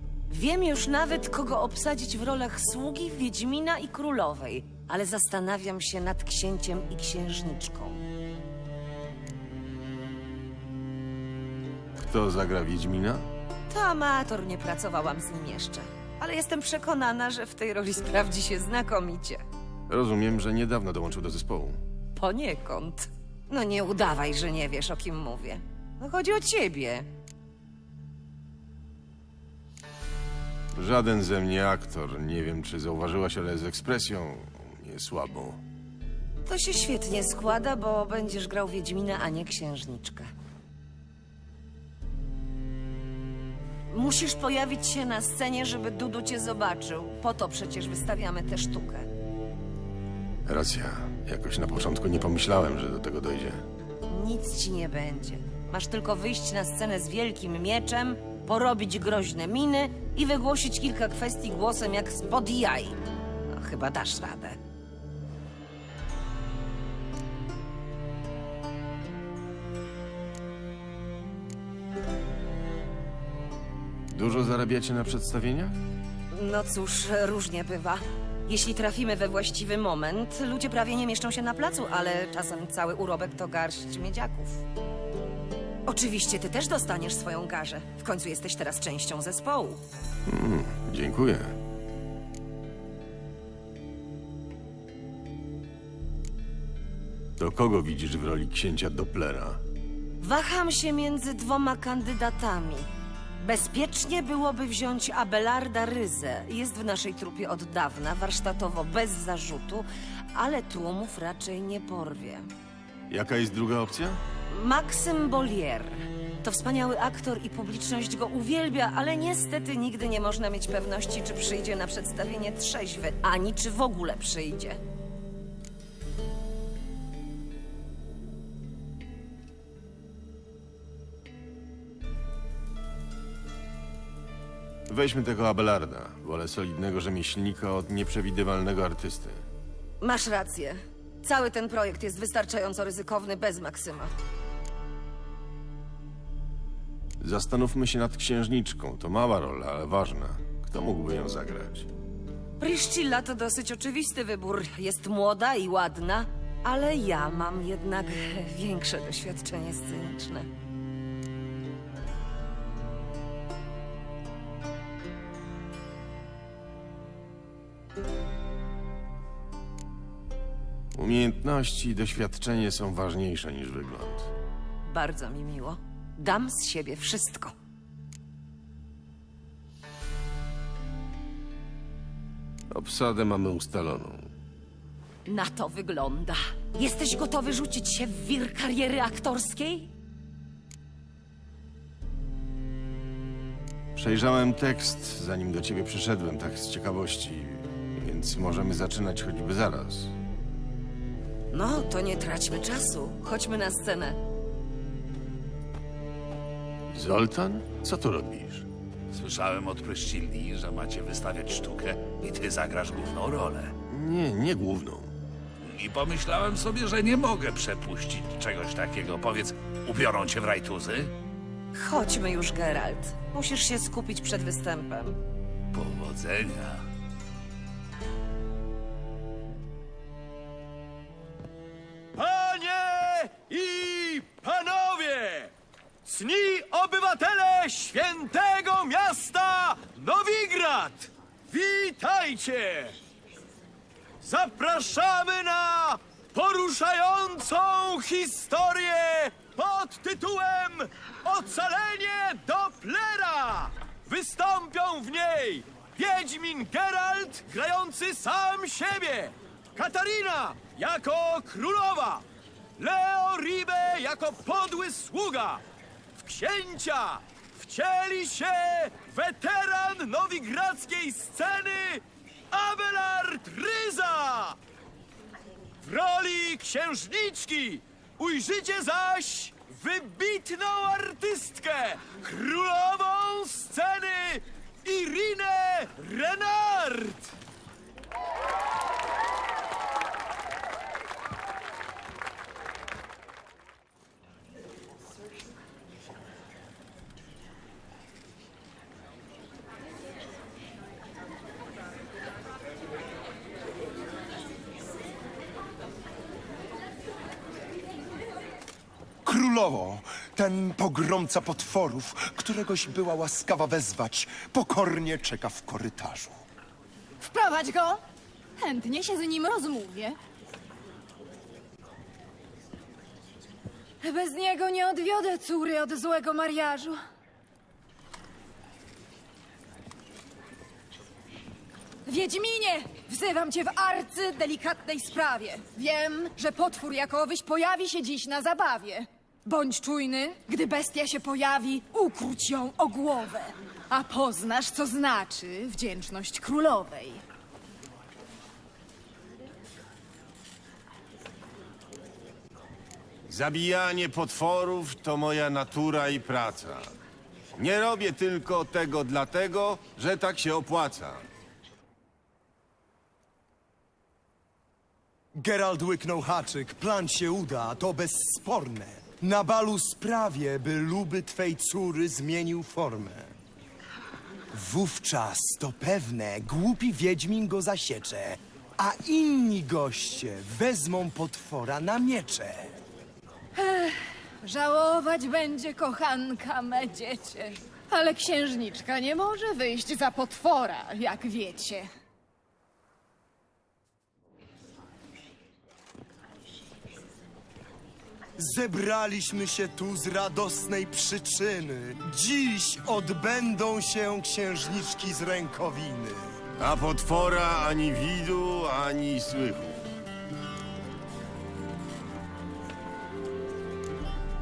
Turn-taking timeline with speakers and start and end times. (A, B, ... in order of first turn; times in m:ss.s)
0:00.3-0:08.0 A
0:12.0-0:13.2 B
0:13.7-0:19.4 A
0:19.9-0:21.8 B
0:22.2-0:27.1 A
0:30.7-0:35.6 B
0:36.4-0:40.3 A
0:43.9-0:49.1 A
0:50.4-0:53.6 B
0:54.1-1:04.6 A
1:14.1-1:15.8 B
1:16.3-1:24.6 A
1:25.9-1:29.8 A
1:30.3-1:31.5 B
1:37.4-1:39.6 B
1:40.2-1:42.9 A
1:43.4-1:52.5 A
1:53.1-1:54.2 B
1:54.5-2:04.8 A
2:14.9-2:19.4 B
2:20.0-2:24.1 A
2:27.2-2:31.9 B
2:32.6-2:40.5 A
2:50.9-2:54.3 B
2:54.8-2:57.5 A
3:02.7-3:04.3 B
3:05.3-3:09.9 A
3:14.0-3:20.1 B
3:21.5-3:24.2 A
3:26.9-3:28.6 B
3:29.1-3:33.7 C
3:33.9-3:35.1 B
3:35.6-3:41.1 C
3:41.7-3:45.2 A
3:45.7-3:46.8 C
3:52.2-3:55.5 D
3:56.0-4:02.9 D
4:04.2-4:22.2 D
4:22.8-4:25.6 D
4:26.2-4:34.6 D
4:35.8-4:47.3 D
5:09.2-5:16.4 E
5:17.2-5:18.0 F
5:18.6-5:20.2 F
5:24.0-5:27.0 F
5:32.0-5:47.2 F
5:53.3-5:56.9 B
5:57.6-6:01.2 B
6:05.4-6:13.3 E
6:14.5-6:22.8 E
6:23.6-6:31.9 F
6:38.4-6:46.4 E
6:46.6-6:49.8 B